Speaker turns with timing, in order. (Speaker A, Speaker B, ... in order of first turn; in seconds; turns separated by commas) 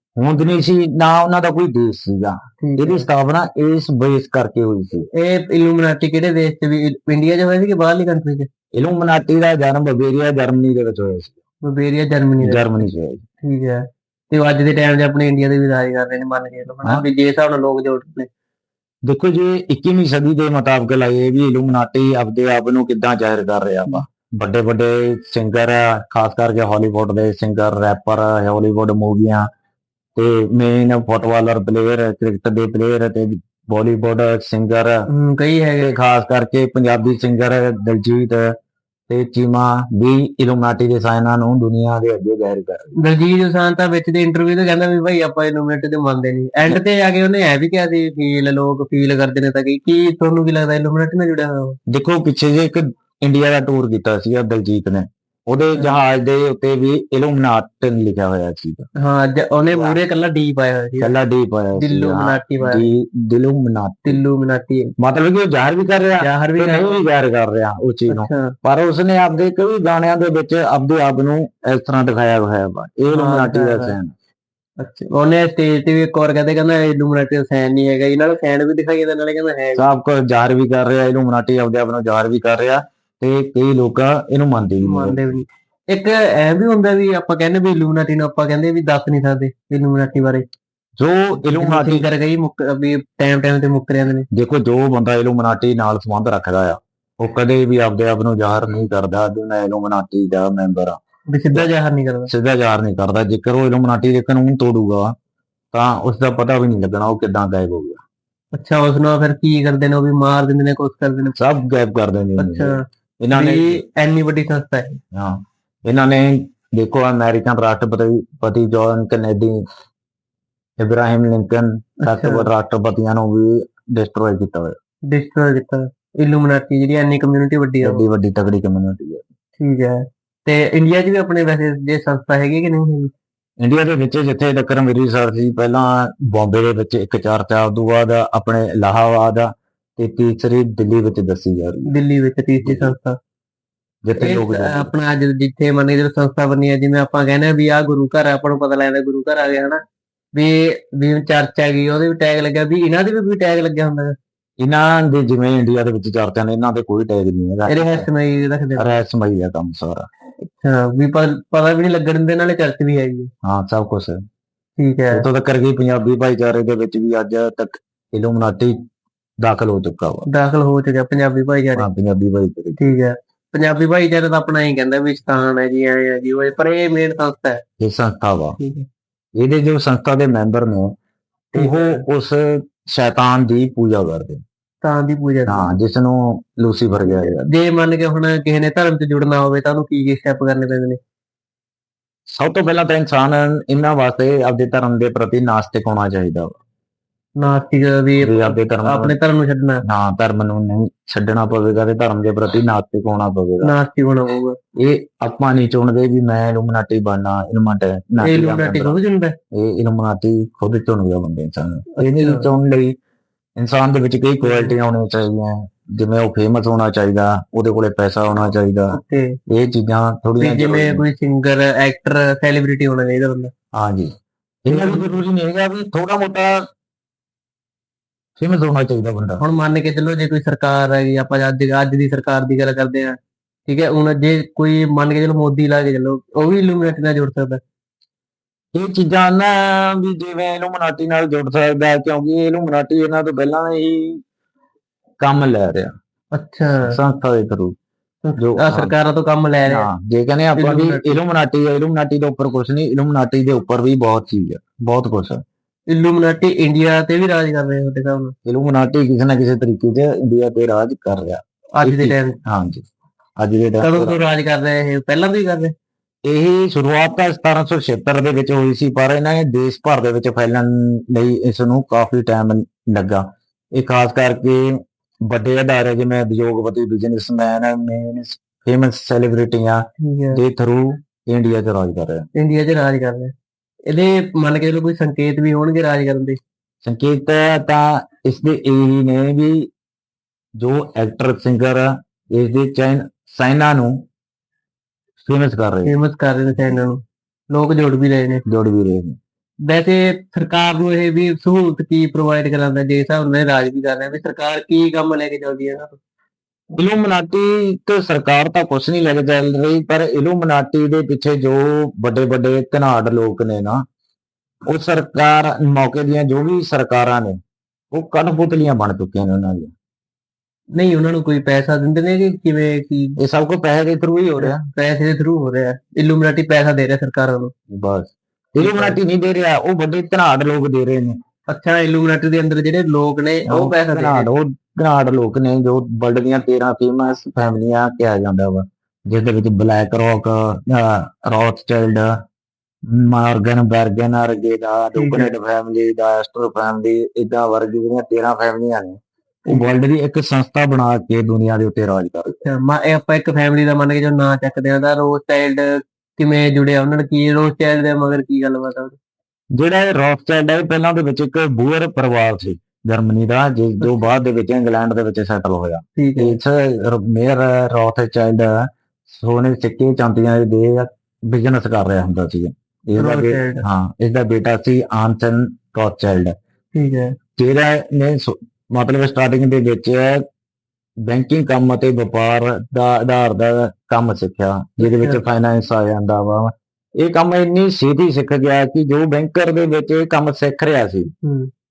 Speaker A: 0.2-5.1, Speaker B: 2.6-3.0, Speaker B: 5.1-8.5, Speaker A: 8.8-11.3, Speaker B: 11.6-12.9, Speaker A: 12.4-13.2, Speaker B: 13.4-18.3, Speaker A: 19.1-29.5, Speaker A: 30.1-35.0, Speaker B: 35.1-35.9, Speaker A: 35.8-38.5, Speaker A: 39.1-42.8, Speaker B: 43.0-51.8, Speaker A: 51.9-58.8, Speaker B: 59.0-61.2, Speaker A: 61.0-64.2, Speaker B: 61.8-62.9, Speaker B: 64.0-64.9, Speaker A: 65.0-74.1, Speaker B: 66.2-67.0, Speaker B: 68.1-68.5, Speaker B: 73.1-73.9, Speaker B: 74.8-79.8, Speaker A: 79.8-85.3, Speaker B: 84.8-90.4, Speaker A: 91.0-92.0, Speaker B: 91.4-94.3, Speaker A: 94.3-101.0, Speaker B: 101.3-102.3, Speaker A: 102.3-105.1, Speaker A: 105.7-108.0, Speaker B: 108.5-111.3, Speaker A: 111.3-113.8, Speaker B: 112.4-112.8, Speaker B: 113.3-115.0, Speaker A: 115.1-119.6, Speaker A: 120.8-124.7, Speaker B: 122.0-122.5, Speaker B: 125.1-128.0, Speaker A: 127.8-129.2, Speaker B: 129.6-133.1, Speaker A: 133.6-141.9, Speaker B: 141.9-143.2, Speaker A: 142.6-142.9, Speaker A: 144.0-144.9, Speaker B: 144.2-149.8, Speaker B: 150.3-154.1, Speaker A: 154.6-158.1, Speaker B: 157.7-158.9, Speaker A: 158.8-160.1, Speaker B: 160.4-163.3, Speaker A: 163.4-164.2, Speaker B: 164.8-165.2, Speaker A: 165.1-168.8, Speaker A: 169.4-170.2, Speaker B: 170.3-171.9, Speaker A: 171.8-172.8, Speaker B: 172.8-177.6, Speaker A: 177.8-178.6, Speaker B: 178.6-178.8, Speaker A: 179.4-180.9, Speaker B: 181.5-182.0, Speaker A: 181.6-184.4, Speaker B: 184.8-185.8, Speaker A: 185.5-187.4, Speaker B: 187.0-191.0, Speaker A: 192.3-196.5, Speaker B: 197.4-199.8, Speaker A: 198.2-199.1, Speaker A: 199.9-203.7, Speaker B: 203.6-204.6, Speaker A: 204.8-209.0, Speaker B: 208.2-209.3, Speaker A: 209.5-212.9, Speaker B: 212.0-212.5, Speaker A: 213.6-219.0, Speaker B: 214.4-214.7, Speaker B: 218.9-219.3, Speaker A: 219.5-221.0, Speaker B: 220.4-223.5, Speaker A: 223.8-224.1, Speaker A: 224.7-226.6, Speaker B: 224.7-225.1, Speaker A: 228.4-229.4, Speaker B: 229.4-237.6, Speaker A: 238.7-244.2, Speaker A: 245.2-245.9, Speaker B: 246.3-247.0, Speaker A: 246.9-247.8, Speaker B: 248.2-249.9, Speaker A: 248.4-248.9, Speaker A: 249.7-255.4, Speaker B: 250.6-251.2, Speaker B: 255.9-258.3, Speaker A: 258.4-262.8, Speaker B: 261.8-262.4, Speaker A: 263.4-264.1, Speaker B: 263.8-265.7, Speaker A: 266.3-274.6, Speaker A: 275.3-282.2, Speaker B: 280.0-280.4, Speaker B: 282.3-283.3, Speaker B: 283.9-286.4, Speaker A: 286.8-289.7, Speaker A: 290.6-294.1, Speaker A: 295.2-295.9, Speaker B: 295.8-297.0, Speaker B: 297.5-298.4, Speaker A: 298.5-299.2, Speaker B: 299.7-306.0, Speaker A: 306.8-313.8, Speaker A: 314.7-317.4, Speaker A: 317.9-319.7, Speaker B: 320.7-323.2, Speaker A: 323.2-324.6, Speaker B: 324.4-327.5, Speaker A: 327.7-331.2, Speaker B: 328.6-329.0, Speaker B: 331.5-334.3, Speaker A: 333.5-342.1, Speaker A: 342.9-349.0, Speaker B: 344.9-345.3, Speaker A: 349.5-352.3, Speaker B: 352.3-355.6, Speaker B: 356.2-359.0, Speaker A: 359.6-368.5, Speaker B: 365.9-366.4, Speaker A: 369.1-376.3, Speaker B: 373.0-373.6, Speaker B: 376.7-377.1, Speaker A: 377.4-380.2, Speaker A: 381.1-391.1, Speaker B: 384.8-385.2, Speaker B: 391.2-391.5